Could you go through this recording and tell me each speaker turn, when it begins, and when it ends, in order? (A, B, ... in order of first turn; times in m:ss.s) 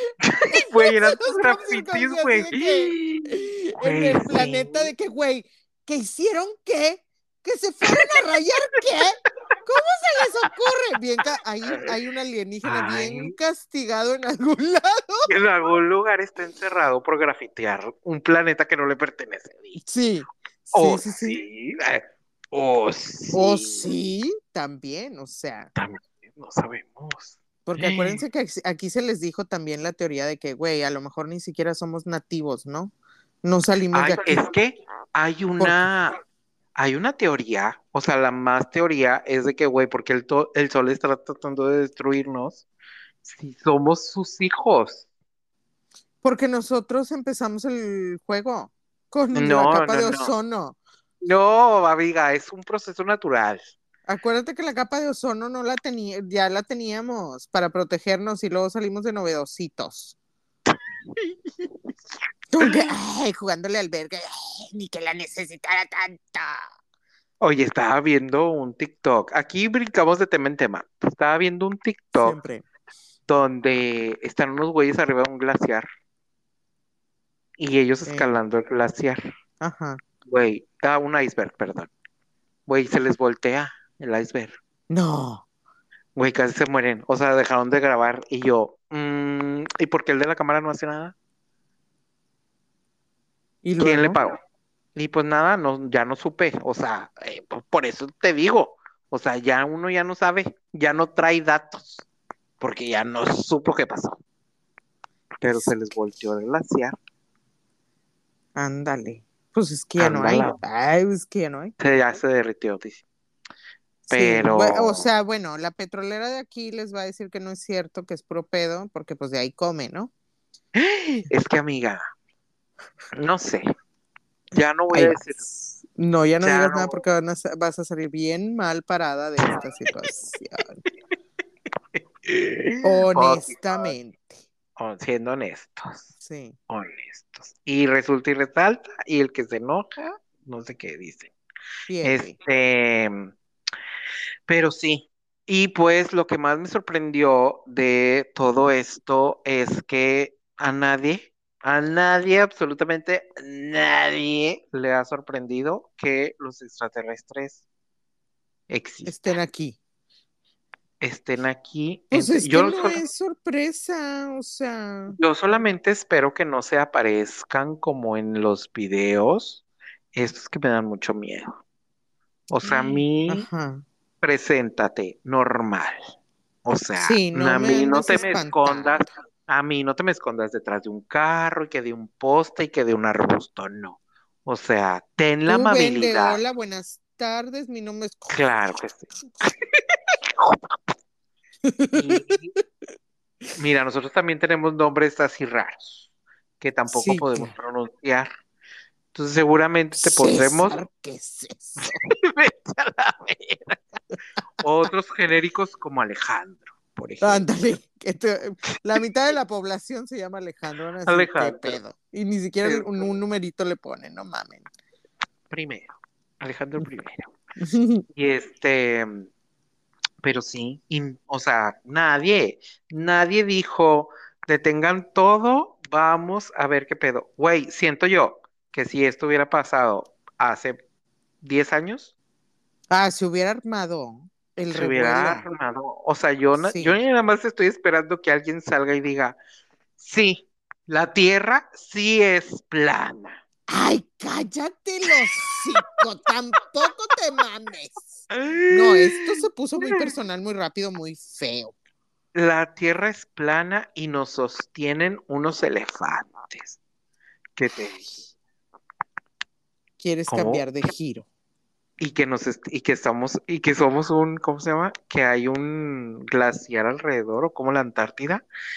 0:00.2-0:04.9 A
0:00.5-0:15.3 B
0:12.6-0:13.3 A
0:15.3-0:19.8 A
0:19.8-0:21.4 B
0:20.7-0:23.8 A
0:23.3-0:25.7 B
0:25.8-0:28.2 A
0:27.6-0:34.5 B
0:33.9-0:36.2 A
0:35.6-0:35.9 B
0:36.8-0:42.6 A
0:43.2-0:45.0 A
0:46.2-0:50.8 B
0:49.3-0:50.3 A
0:51.2-0:53.7 A
0:54.1-1:00.1 B
1:00.7-1:01.7 A
1:02.5-1:06.7 B
1:07.4-1:12.4 A
1:12.2-1:12.6 B
1:13.3-1:15.8 A
1:17.6-1:19.2 A
1:19.6-1:20.0 B
1:20.2-1:21.9 A
1:22.7-1:24.6 A
1:24.9-1:25.4 B
1:26.2-1:31.1 A
1:33.6-1:34.2 B
1:33.8-1:34.4 A
1:34.9-1:42.0 A
1:42.6-1:44.2 A
1:45.4-1:47.0 A
1:48.6-1:51.7 B
1:50.0-1:50.6 A
1:51.8-1:53.0 A
1:54.1-2:00.1 B
1:54.1-1:55.0 A
2:00.7-2:02.0 A
2:03.2-2:03.6 A
2:04.5-2:05.4 A
2:04.9-2:10.8 B
2:06.4-2:07.0 A
2:11.9-2:13.6 A
2:12.8-2:14.4 B
2:14.8-2:16.1 A
2:16.2-2:16.6 B
2:16.7-2:21.3 A
2:21.9-2:22.4 B
2:22.0-2:23.3 A
2:24.5-2:37.6 A
2:38.7-2:39.4 A
2:39.0-2:39.8 B
2:41.0-2:43.0 A
2:42.1-2:45.2 B
2:45.1-2:49.6 A
2:50.1-2:51.6 A
2:52.5-2:53.4 A
2:52.6-2:53.8 B
2:54.2-2:56.0 A
2:56.6-3:06.4 A
2:57.0-2:59.1 B
3:05.5-3:08.4 B
3:08.3-3:09.6 A
3:10.3-3:11.0 A
3:11.6-3:12.6 B
3:11.9-3:12.5 A
3:13.6-3:16.0 A
3:16.6-3:18.3 A
3:16.9-3:17.5 B
3:19.1-3:20.8 A
3:20.0-3:22.0 B
3:21.8-3:23.8 A
3:24.6-3:27.5 A
3:27.2-3:34.7 B
3:31.0-3:31.8 A
3:32.6-3:33.0 A
3:35.5-3:37.3 A
3:37.6-3:38.0 B
3:38.1-3:39.3 A
3:40.2-3:50.8 A
3:51.4-3:52.1 A
3:52.9-3:55.5 B
3:54.7-3:59.4 A
3:56.6-3:57.0 B
4:00.0-4:03.4 A
4:03.7-4:11.7 B
4:08.3-4:10.1 A
4:12.3-4:16.8 A
4:17.6-4:18.0 A
4:20.0-4:21.3 B
4:20.3-4:20.7 A
4:22.0-4:28.4 A